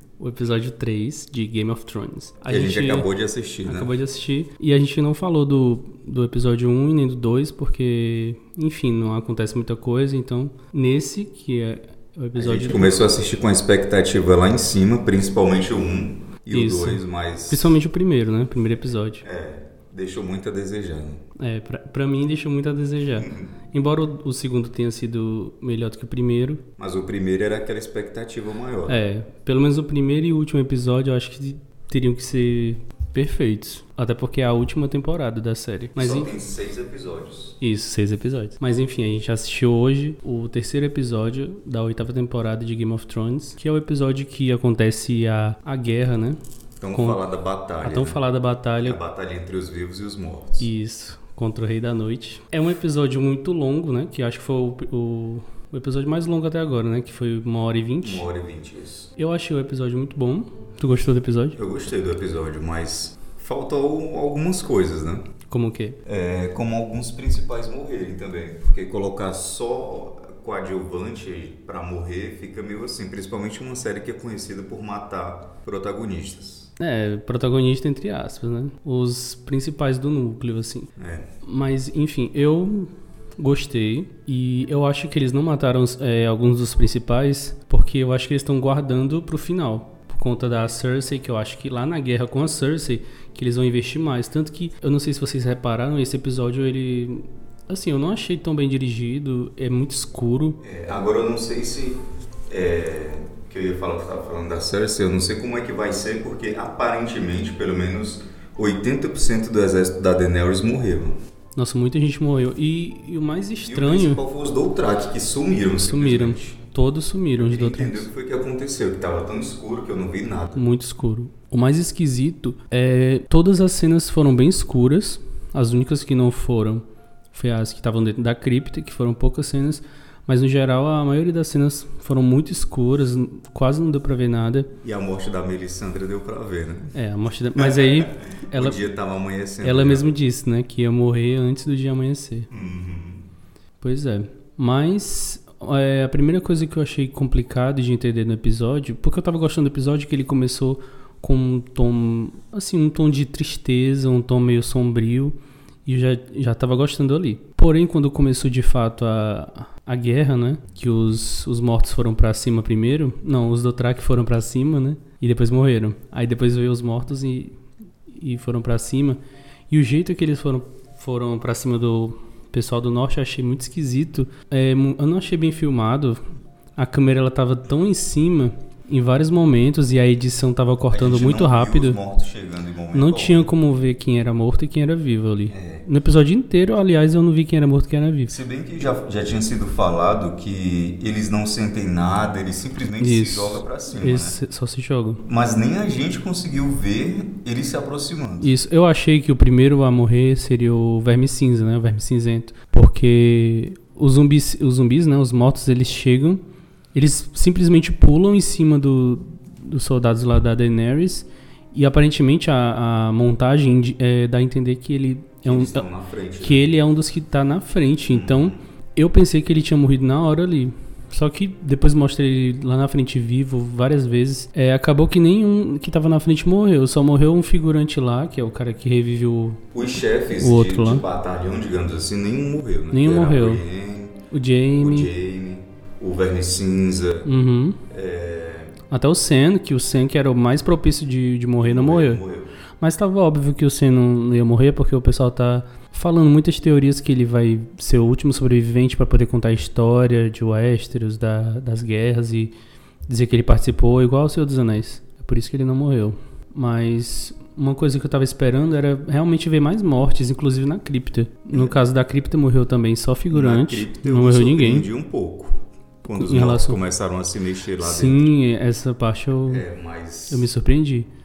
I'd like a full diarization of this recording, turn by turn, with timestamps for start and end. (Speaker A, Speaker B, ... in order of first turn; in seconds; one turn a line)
Speaker A: 0.2-3.1
Speaker B: 2.5-3.9
Speaker A: 3.6-13.1
Speaker B: 12.3-17.8
Speaker A: 16.5-19.2
Speaker B: 19.2-21.2
Speaker A: 21.4-26.6
Speaker B: 23.1-23.5
Speaker B: 26.8-29.0
Speaker A: 28.9-36.3
Speaker B: 36.0-37.5
Speaker A: 37.6-46.4
Speaker B: 46.8-48.2
Speaker A: 46.9-47.2
Speaker A: 47.8-49.0
Speaker B: 48.8-50.7
Speaker A: 50.6-58.2
Speaker B: 58.0-59.1
Speaker A: 59.1-61.6
Speaker B: 61.5-65.2
Speaker A: 65.5-66.0
Speaker B: 66.0-76.7
Speaker A: 76.8-80.9
Speaker B: 81.0-81.3
Speaker A: 81.4-100.6
Speaker B: 100.6-111.1
Speaker A: 111.5-114.2
Speaker B: 113.6-116.6
Speaker A: 115.8-118.1
Speaker B: 117.3-120.6
Speaker A: 120.5-134.7
Speaker B: 134.8-136.9
Speaker A: 136.9-138.8
Speaker B: 137.6-140.1
Speaker A: 139.6-142.5
Speaker B: 142.5-143.2
Speaker A: 143.8-167.6
Speaker A: 168.1-176.2
Speaker A: 176.8-182.0
Speaker B: 180.9-183.5
Speaker A: 182.9-188.3
Speaker B: 185.5-185.8
Speaker B: 188.3-194.4
Speaker A: 193.0-195.2
Speaker B: 195.2-198.5
Speaker A: 198.4-206.4
Speaker A: 206.9-215.8
Speaker B: 215.4-216.7
Speaker A: 216.4-229.6
Speaker B: 218.0-218.6
Speaker B: 229.7-234.2
Speaker A: 230.3-231.1
Speaker A: 232.9-233.6
Speaker A: 234.3-235.1
Speaker B: 234.8-237.3
Speaker A: 237.2-237.8
Speaker B: 237.9-238.8
Speaker A: 238.9-242.2
Speaker B: 241.6-242.6
Speaker A: 242.8-252.5
Speaker A: 253.1-264.9
Speaker B: 261.5-261.8
Speaker B: 263.3-268.2
Speaker A: 266.1-266.8
Speaker A: 267.8-269.6
Speaker B: 269.5-270.5
Speaker A: 270.3-271.1